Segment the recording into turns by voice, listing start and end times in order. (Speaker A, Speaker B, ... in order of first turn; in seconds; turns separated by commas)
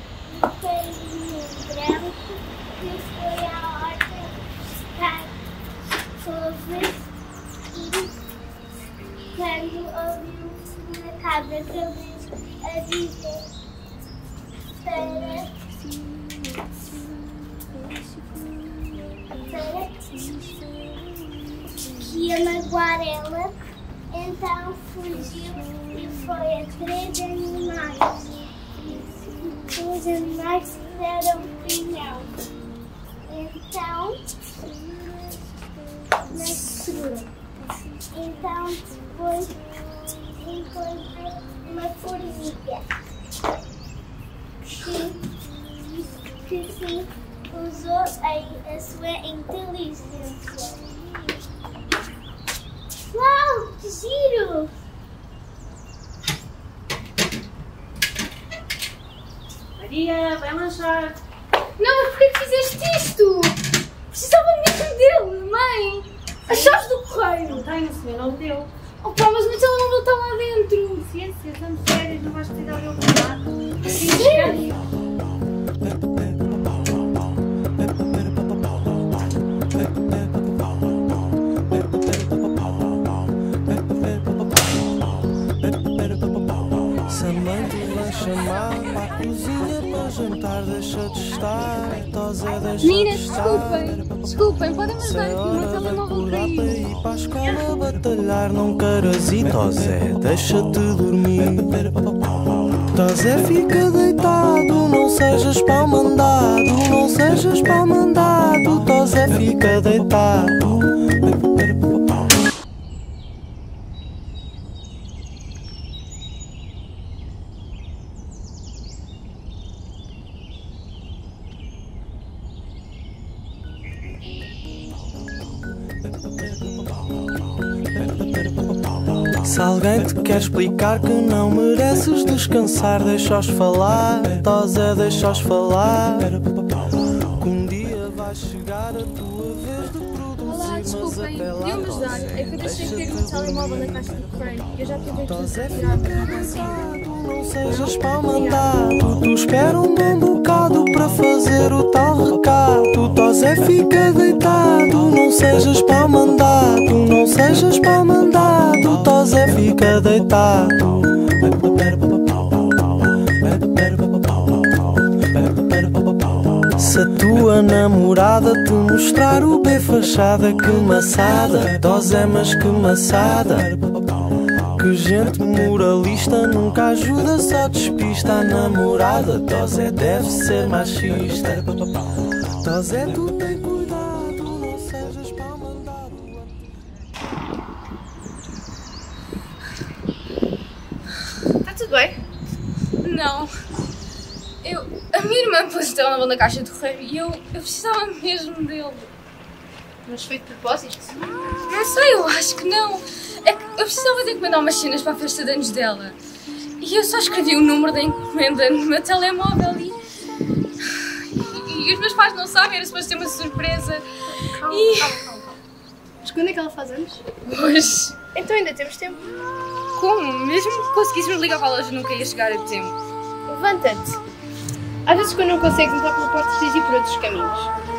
Speaker A: 0.3-4.4, Speaker A: 4.9-5.3, Speaker A: 6.2-7.1, Speaker A: 7.7-8.2, Speaker A: 9.3-13.5, Speaker A: 14.8-15.5, Speaker A: 19.3-20.3, Speaker A: 21.9-23.6, Speaker A: 24.1-32.3, Speaker A: 33.2-34.3, Speaker A: 36.3-37.2, Speaker A: 38.1-39.6, Speaker A: 40.4-42.9, Speaker A: 44.8-51.0, Speaker A: 53.1-54.7, Speaker B: 59.8-61.2, Speaker C: 61.8-67.7, Speaker B: 67.6-68.7, Speaker C: 69.0-71.1, Speaker B: 71.1-73.4, Speaker C: 74.0-74.7, Speaker B: 74.0-74.6, Speaker D: 87.1-94.0, Speaker C: 92.8-96.9, Speaker D: 95.0-101.8, Speaker D: 102.9-110.8, Speaker D: 129.4-136.7, Speaker D: 137.2-143.9, Speaker C: 140.4-146.8, Speaker D: 145.2-161.1, Speaker C: 147.8-148.7, Speaker D: 166.7-174.0, Speaker D: 174.7-182.0, Speaker D: 182.5-186.6, Speaker E: 191.7-192.2, Speaker C: 193.0-193.5, Speaker C: 194.6-199.1, Speaker E: 200.1-201.1, Speaker C: 201.7-206.2, Speaker C: 206.8-210.0, Speaker C: 210.9-214.1, Speaker E: 214.6-215.5, Speaker C: 214.7-215.3, Speaker E: 216.2-217.2, Speaker C: 217.4-218.2, Speaker E: 218.3-219.2, Speaker C: 219.9-222.9, Speaker E: 223.5-224.2, Speaker E: 225.1-227.7